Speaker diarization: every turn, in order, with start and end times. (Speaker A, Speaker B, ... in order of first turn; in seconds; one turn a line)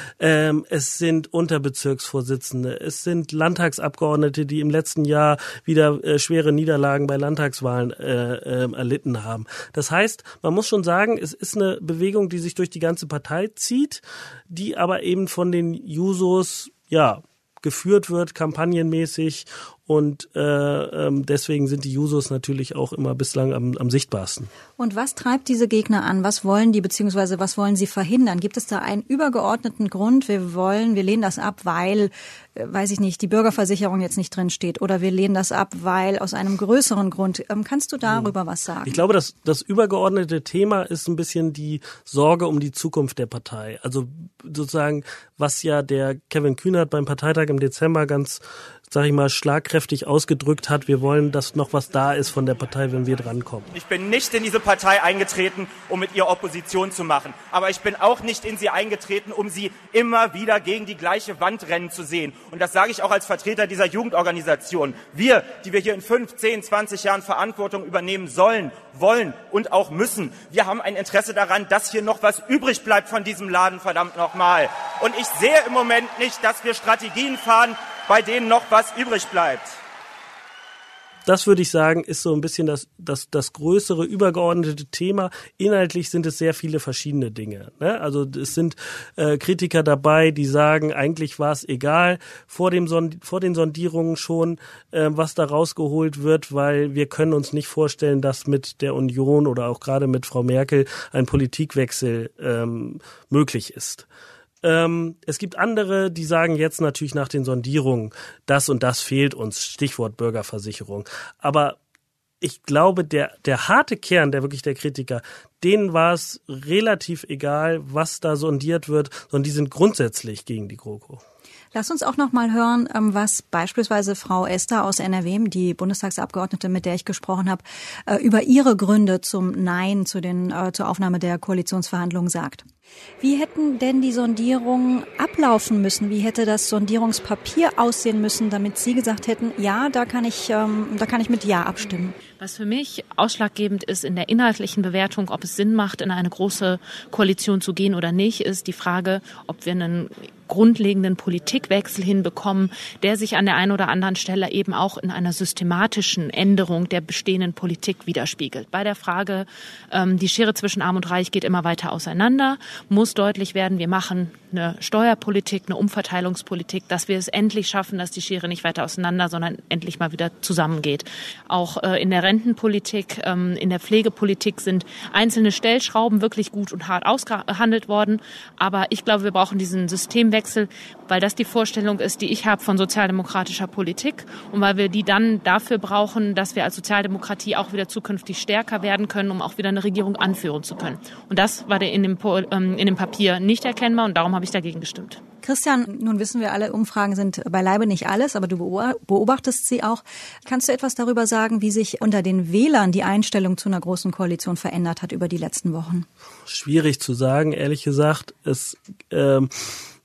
Speaker A: 0.2-24.5
Speaker B: 24.8-39.0
Speaker A: 38.9-53.7
Speaker C: 53.7-79.8
Speaker A: 81.3-104.1
Speaker A: 104.6-111.8
Speaker A: 112.4-121.2
Speaker B: 121.7-132.7
Speaker B: 133.2-142.2
Speaker D: 142.4-195.2
Speaker B: 195.4-206.1
Speaker A: 206.5-209.8